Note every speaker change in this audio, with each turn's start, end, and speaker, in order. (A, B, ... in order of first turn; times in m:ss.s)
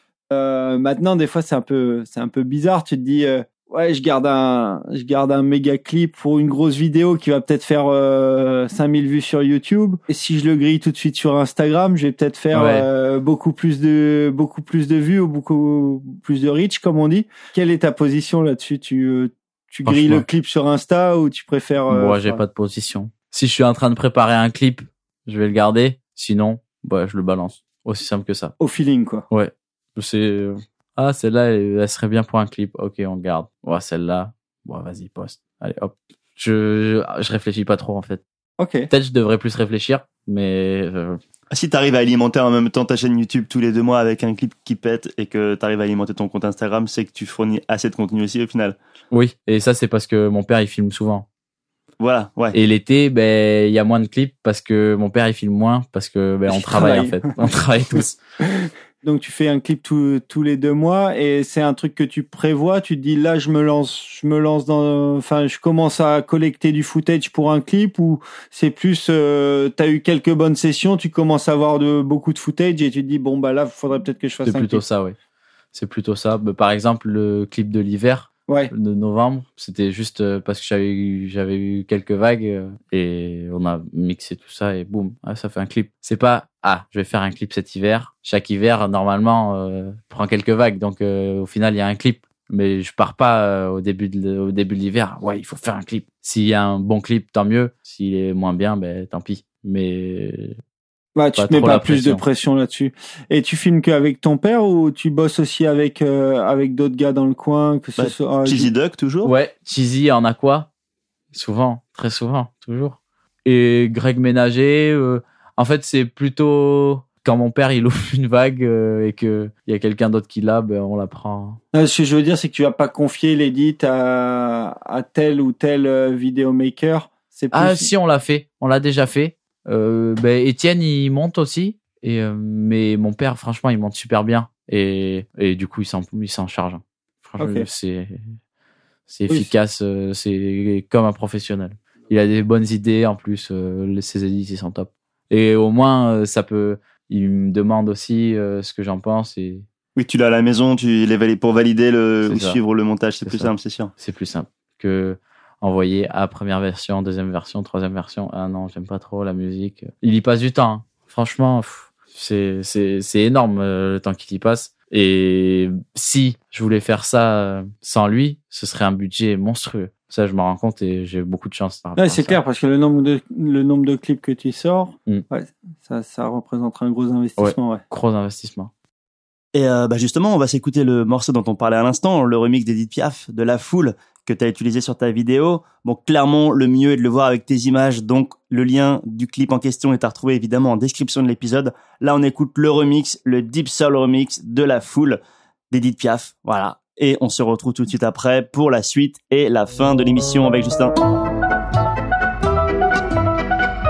0:00.3-0:22.4 A
0:12.5-0:12.9 B
0:19.8-0:20.3 B
0:21.9-0:28.5 B
0:28.6-0:29.3 A
0:29.3-0:38.2 B
0:38.6-0:38.9 A
0:38.9-0:41.2 B
0:41.5-0:48.8 C
0:49.1-0:51.3 B
0:52.0-0:52.6 C
0:52.5-0:58.2 B
0:56.5-0:57.2 A
0:58.0-1:14.8 A
1:14.4-1:15.2 B
1:15.7-1:40.6 B
1:41.2-1:48.7 A
1:41.4-1:42.2 B
1:48.0-1:49.3 C
1:49.2-1:50.7 B
1:51.3-2:01.6 B
2:01.7-2:07.9 A
2:07.5-2:18.4 B
2:17.4-2:17.7 A
2:19.1-2:29.7 B
2:30.0-2:33.9 C
2:32.2-2:32.6 B
2:33.2-2:52.4 B
2:52.0-2:57.8 A
2:57.4-2:58.7 B
2:59.5-3:15.2 C
3:15.7-3:20.9 C